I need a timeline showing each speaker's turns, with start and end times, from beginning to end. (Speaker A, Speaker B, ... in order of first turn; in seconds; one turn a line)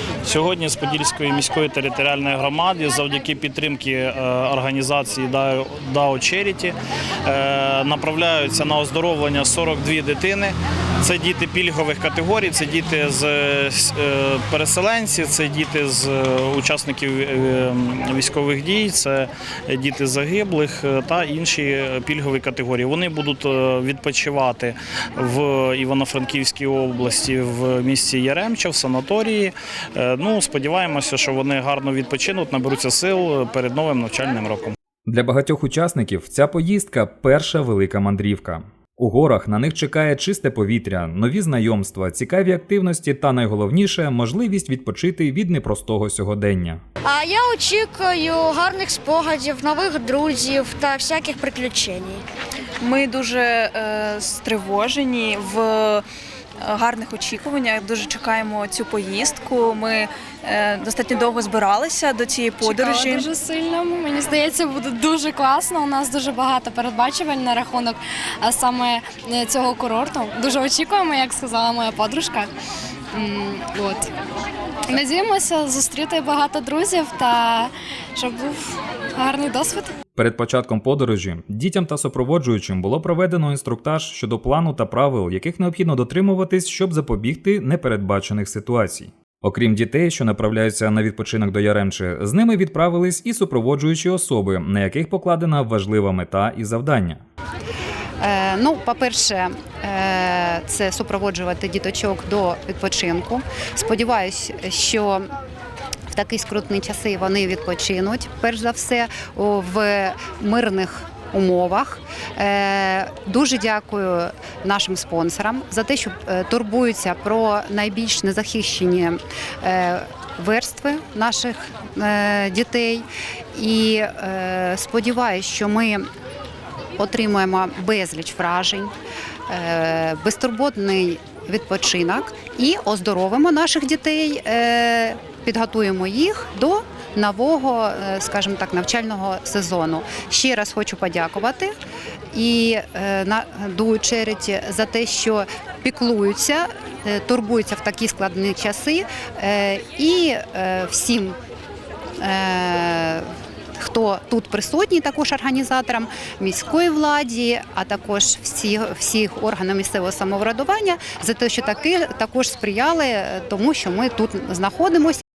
Speaker A: 0.2-34.7
Speaker B: 35.1-46.8
Speaker C: 47.0-52.2
Speaker D: 52.8-56.1
Speaker D: 56.6-63.3
Speaker E: 62.6-72.5
Speaker E: 73.1-74.1
Speaker E: 74.9-79.9
Speaker B: 80.2-97.2
Speaker F: 98.2-105.3
Speaker F: 106.1-126.0
Speaker F: 127.0-128.9
Speaker F: 129.5-141.7
Speaker F: 142.3-151.4
Speaker F: 152.2-165.2